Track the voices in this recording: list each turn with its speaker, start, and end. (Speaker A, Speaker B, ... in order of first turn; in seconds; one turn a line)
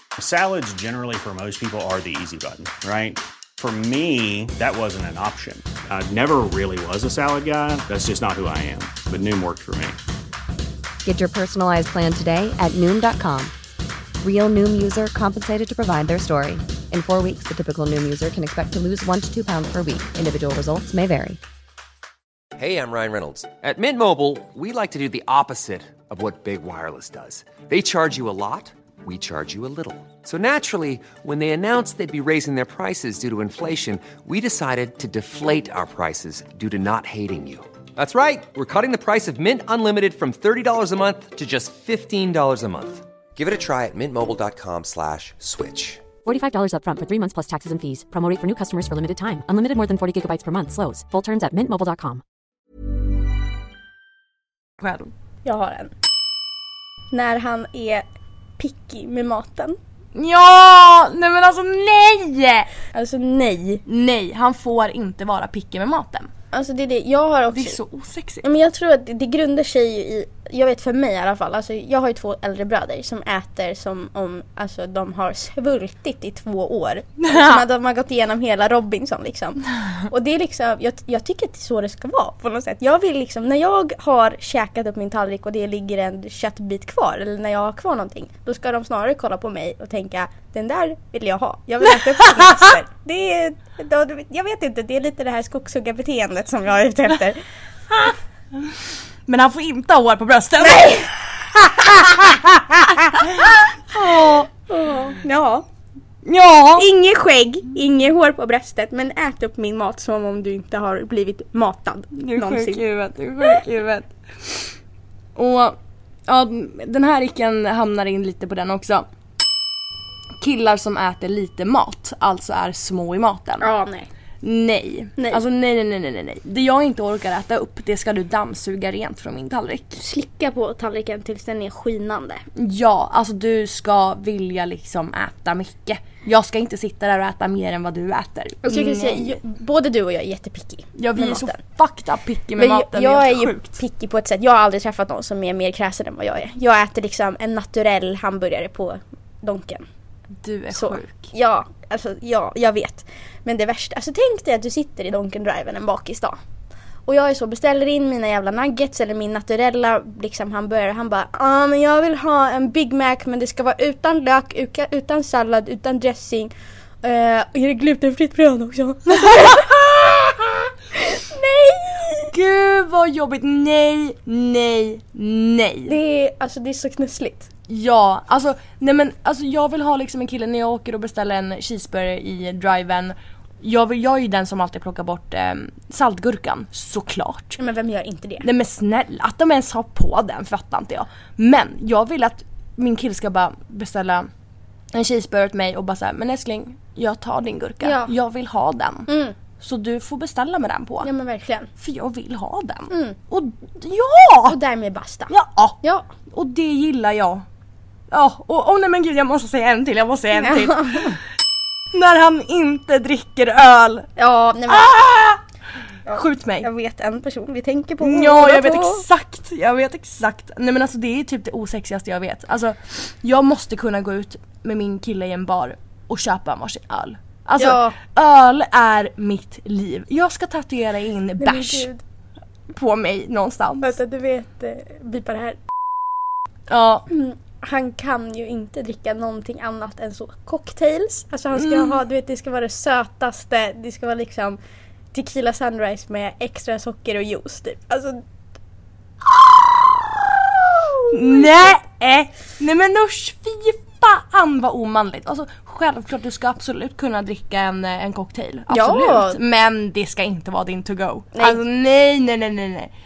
Speaker A: 0.2-10.0
Speaker B: 11.0-13.5
Speaker B: 14.2-21.4
Speaker C: 22.6-46.0
Speaker D: 46.2-52.2
Speaker E: 54.8-55.1
Speaker F: 55.4-55.9
Speaker F: 57.1-58.0
Speaker F: 58.6-59.8
Speaker E: 60.1-62.7
Speaker F: 62.9-63.8
Speaker E: 63.9-66.3
Speaker F: 66.5-67.8
Speaker E: 67.5-68.5
Speaker F: 68.4-97.4
Speaker E: 77.2-77.6
Speaker E: 92.4-92.6
Speaker E: 97.9-98.7
Speaker E: 99.3-104.5
Speaker F: 100.6-101.1
Speaker F: 104.5-105.6
Speaker E: 106.2-106.9
Speaker F: 106.8-112.8
Speaker E: 112.1-114.7
Speaker E: 115.3-119.1
Speaker E: 120.4-123.7
Speaker F: 123.6-124.1
Speaker E: 124.4-130.0
Speaker F: 125.2-125.4
Speaker F: 129.9-132.4
Speaker E: 132.6-139.4
Speaker F: 138.6-141.6
Speaker E: 140.9-143.8
Speaker F: 142.6-149.8
Speaker E: 150.4-151.3
Speaker F: 150.7-156.4
Speaker F: 157.1-166.5
Speaker F: 167.0-170.2
Speaker E: 169.1-170.2
Speaker F: 170.9-172.3
Speaker E: 172.3-175.9
Speaker F: 175.8-177.5
Speaker E: 177.7-187.6
Speaker F: 187.6-188.4
Speaker E: 188.4-194.3
Speaker E: 194.9-199.1
Speaker F: 197.8-198.1
Speaker F: 199.1-199.3
Speaker E: 199.6-201.1
Speaker F: 201.0-201.7
Speaker E: 201.8-204.6
Speaker F: 202.9-203.2
Speaker F: 204.4-206.1
Speaker E: 205.3-205.8
Speaker E: 206.3-207.4
Speaker E: 208.1-211.1
Speaker F: 210.4-211.2
Speaker E: 211.9-214.1
Speaker F: 214.2-215.0
Speaker E: 214.7-215.4
Speaker F: 216.1-219.0
Speaker E: 216.1-216.7
Speaker E: 218.0-231.9
Speaker F: 227.6-228.0
Speaker F: 231.4-232.0
Speaker E: 232.7-234.0
Speaker F: 233.8-235.6
Speaker E: 236.7-237.0
Speaker F: 237.1-244.6
Speaker E: 241.5-242.0
Speaker F: 245.1-248.2
Speaker F: 250.6-251.7
Speaker E: 251.1-262.9
Speaker F: 258.7-259.4
Speaker F: 261.3-261.6